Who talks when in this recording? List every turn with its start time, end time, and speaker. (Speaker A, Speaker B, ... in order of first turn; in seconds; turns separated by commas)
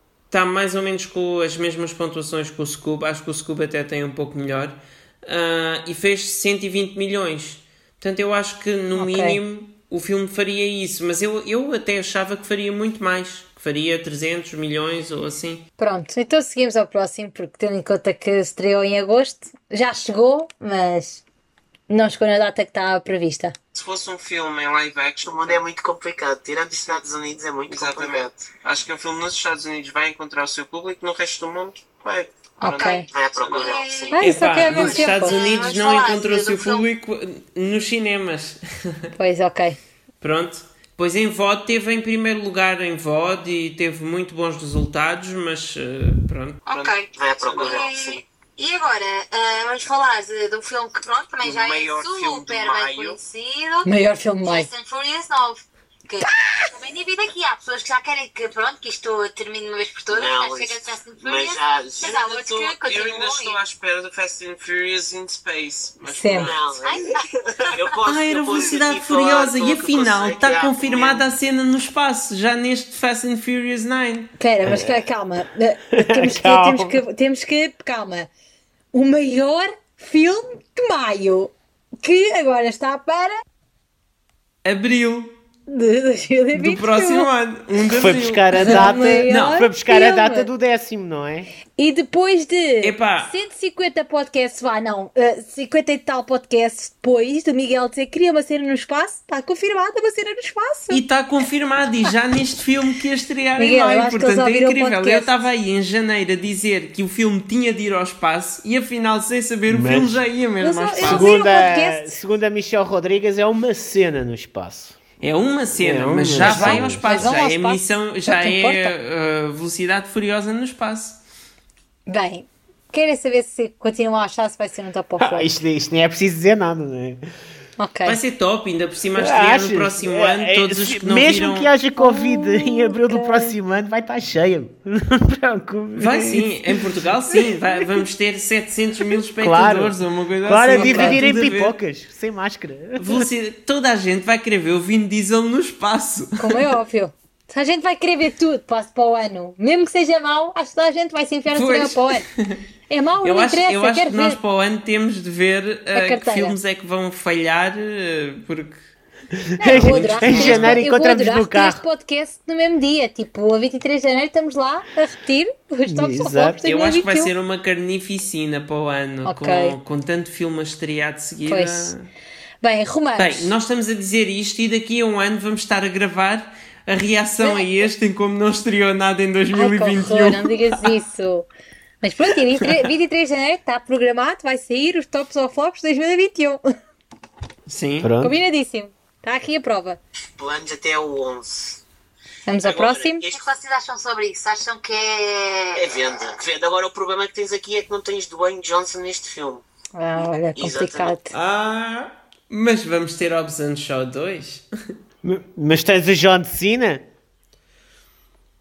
Speaker A: 0.3-15.7, Speaker B: 9.0-9.4, Speaker B: 15.8-21.2, Speaker B: 21.9-23.6, Speaker C: 23.7-25.6, Speaker D: 25.3-28.3, Speaker C: 27.7-33.8, Speaker B: 32.6-33.1, Speaker E: 32.7-33.0, Speaker D: 33.1-34.2, Speaker E: 33.6-36.9, Speaker B: 34.1-35.4, Speaker A: 34.2-39.1, Speaker B: 39.1-39.8, Speaker A: 40.2-46.6, Speaker E: 46.7-53.9, Speaker C: 46.7-47.8, Speaker D: 47.1-48.2, Speaker C: 51.4-53.2, Speaker B: 53.9-54.7, Speaker E: 54.4-63.6, Speaker D: 60.1-62.2, Speaker C: 62.0-66.9, Speaker B: 66.0-66.5, Speaker D: 66.3-71.3, Speaker E: 66.8-67.2, Speaker A: 68.0-74.3, Speaker C: 68.4-69.0, Speaker C: 70.1-70.7, Speaker B: 74.4-78.3, Speaker F: 74.6-75.0, Speaker F: 76.0-77.0, Speaker B: 78.9-83.4, Speaker A: 84.6-85.3, Speaker B: 85.7-87.3, Speaker A: 86.5-89.7, Speaker F: 87.9-91.5, Speaker B: 88.6-90.5, Speaker B: 91.8-101.0, Speaker A: 92.8-93.3, Speaker A: 100.9-111.3, Speaker B: 103.6-105.3, Speaker F: 109.7-110.2, Speaker B: 110.6-112.2, Speaker F: 111.0-115.0, Speaker A: 115.2-121.2, Speaker F: 115.8-117.1, Speaker B: 116.4-118.9, Speaker B: 122.1-125.6, Speaker F: 125.2-127.2, Speaker B: 127.8-128.2, Speaker A: 128.1-131.7, Speaker F: 129.2-138.1, Speaker B: 132.0-133.6, Speaker A: 136.0-141.8, Speaker F: 139.2-143.3, Speaker B: 140.7-141.2, Speaker A: 143.0-146.7, Speaker B: 146.4-152.3, Speaker A: 151.5-152.6, Speaker B: 152.9-154.4, Speaker A: 153.2-158.8, Speaker B: 155.9-156.6, Speaker F: 159.3-161.8, Speaker B: 159.6-167.3, Speaker A: 159.7-160.8, Speaker F: 165.9-166.6, Speaker A: 166.6-172.1, Speaker B: 169.2-169.8, Speaker B: 171.5-171.9, Speaker B: 172.6-173.5, Speaker A: 173.2-180.9, Speaker B: 177.4-177.8, Speaker B: 179.5-181.5, Speaker B: 182.0-186.6, Speaker A: 187.7-188.1, Speaker F: 188.0-188.4, Speaker B: 188.2-190.0, Speaker D: 190.4-191.8, Speaker B: 192.5-193.2, Speaker D: 192.6-193.4, Speaker E: 193.2-195.9, Speaker D: 195.8-199.6, Speaker B: 199.9-201.3, Speaker D: 200.6-201.1, Speaker A: 201.3-204.7, Speaker F: 205.2-207.1